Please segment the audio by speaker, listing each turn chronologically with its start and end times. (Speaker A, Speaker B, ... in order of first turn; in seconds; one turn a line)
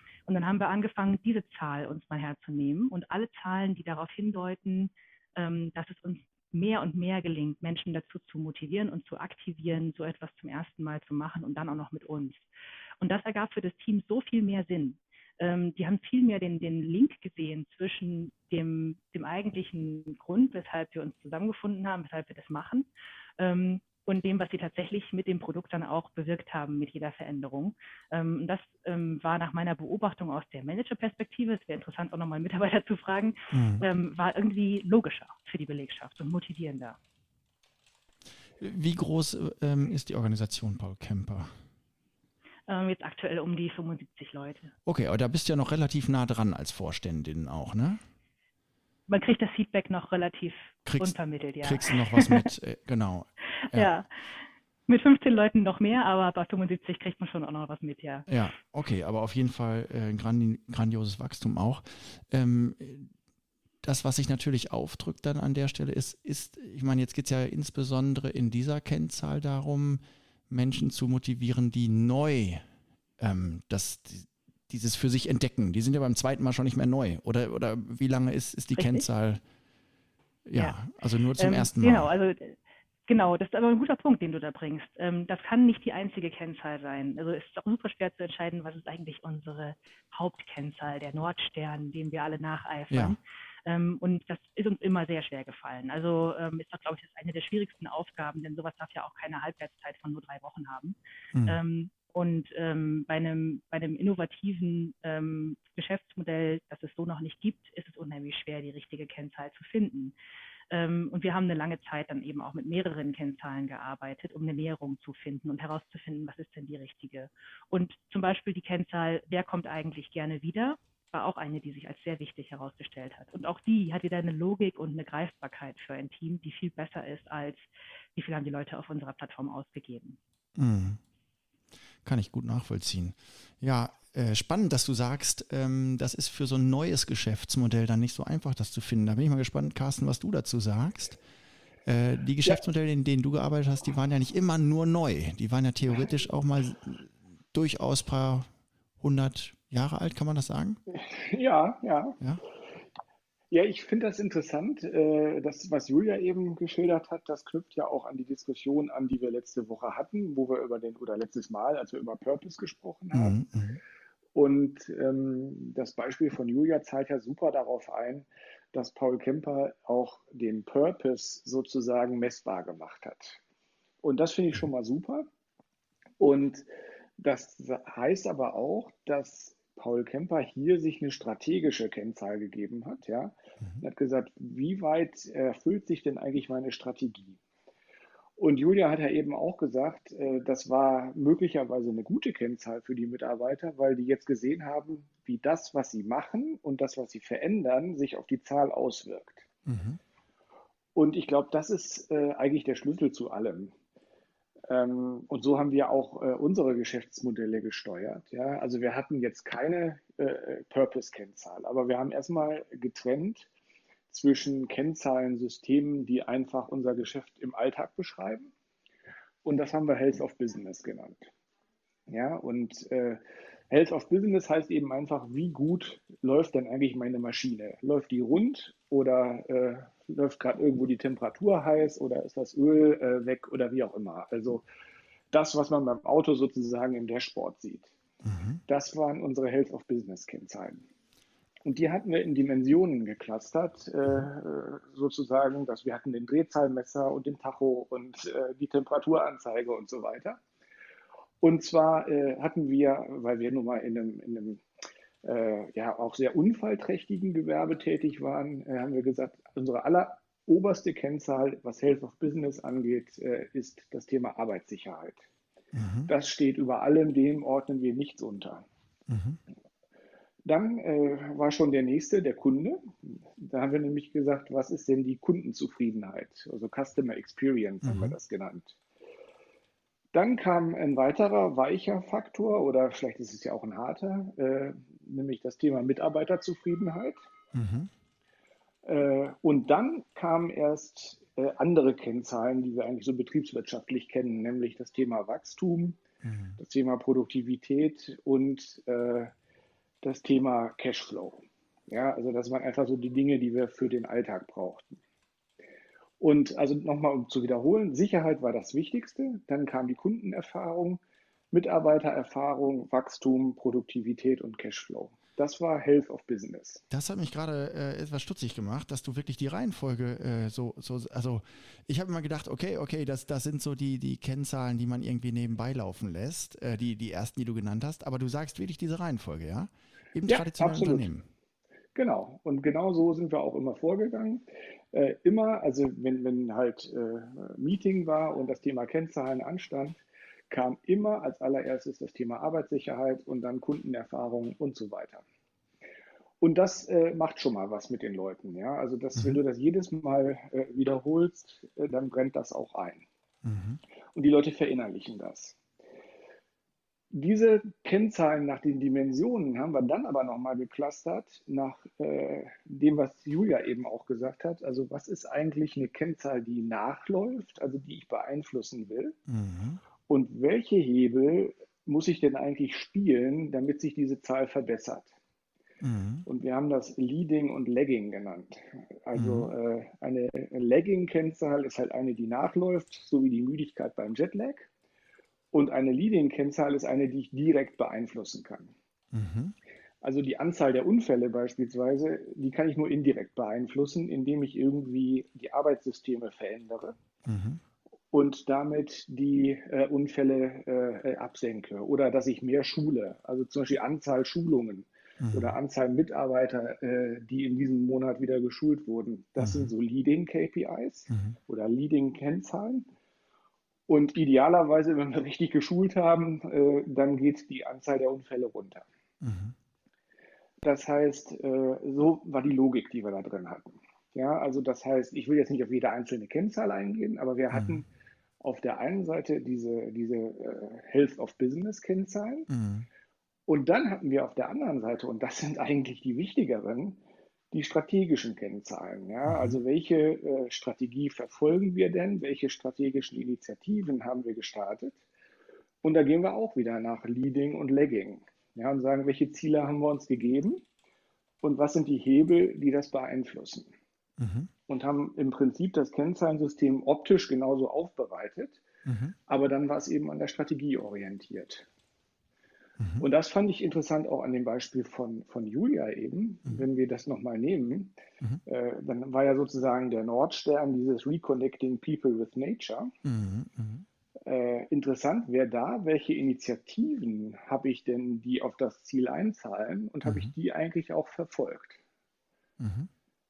Speaker A: 0.3-12.5
Speaker A: 13.0-22.9
Speaker A: 23.4-37.0
Speaker B: 33.5-33.8
Speaker B: 38.6-41.5
Speaker A: 42.7-44.7
Speaker B: 44.9-48.0
Speaker A: 49.1-52.5
Speaker B: 50.9-53.9
Speaker A: 53.6-54.1
Speaker A: 54.9-58.3
Speaker B: 58.3-63.1
Speaker B: 63.8-72.6
Speaker B: 73.2-79.4
Speaker A: 78.7-79.0
Speaker B: 80.5-82.1
Speaker A: 81.3-110.1
Speaker B: 92.9-93.2
Speaker A: 110.7-130.2
Speaker B: 130.6-131.0
Speaker B: 132.0-141.2
Speaker B: 141.8-148.5
Speaker B: 149.0-150.8
Speaker C: 150.9-152.2
Speaker C: 153.5-163.4
Speaker B: 163.1-163.8
Speaker C: 164.3-173.4
Speaker C: 174.0-175.3
Speaker C: 176.2-176.7
Speaker C: 177.2-187.4
Speaker C: 188.4-199.5
Speaker B: 199.7-200.0
Speaker C: 200.9-203.7
Speaker C: 204.7-213.5
Speaker C: 214.1-218.5
Speaker C: 219.4-221.3
Speaker C: 222.1-234.6
Speaker C: 235.3-237.9
Speaker B: 238.2-238.6
Speaker C: 238.7-240.8
Speaker C: 241.6-250.4
Speaker C: 251.4-254.6
Speaker C: 255.2-265.2
Speaker B: 265.7-266.1
Speaker C: 266.1-268.6
Speaker B: 269.1-269.4
Speaker C: 270.4-278.8
Speaker B: 277.8-278.2
Speaker C: 280.1-287.2
Speaker B: 287.5-287.9
Speaker C: 288.8-296.0
Speaker B: 296.2-296.6
Speaker C: 296.6-299.3
Speaker C: 300.0-304.9
Speaker C: 306.2-311.0
Speaker C: 311.5-316.8
Speaker B: 316.9-331.3
Speaker C: 330.2-331.1
Speaker C: 331.9-345.2
Speaker C: 346.4-353.1
Speaker B: 353.4-353.8
Speaker C: 354.1-355.6
Speaker C: 357.1-369.2
Speaker B: 369.3-369.8
Speaker C: 370.1-375.1
Speaker B: 375.8-376.2
Speaker C: 376.2-384.7
Speaker B: 379.1-379.5
Speaker C: 385.5-388.7
Speaker B: 389.1-389.5
Speaker C: 390.0-396.9
Speaker B: 397.2-397.6
Speaker C: 398.1-412.9
Speaker B: 405.2-405.6
Speaker B: 409.4-409.7
Speaker C: 413.9-418.8
Speaker B: 419.2-419.5
Speaker C: 420.6-427.9
Speaker B: 427.5-427.8
Speaker C: 428.4-432.5
Speaker B: 432.5-432.9
Speaker C: 433.5-437.0
Speaker C: 437.5-445.0
Speaker B: 439.3-439.6
Speaker C: 445.8-450.6
Speaker C: 451.4-453.7
Speaker B: 454.2-454.5
Speaker C: 454.7-458.6
Speaker B: 458.9-459.1
Speaker C: 459.3-461.7
Speaker B: 462.8-463.1
Speaker C: 463.0-467.9
Speaker C: 468.4-472.9
Speaker B: 473.0-473.8
Speaker C: 474.2-481.8
Speaker B: 480.0-480.3
Speaker B: 482.6-482.9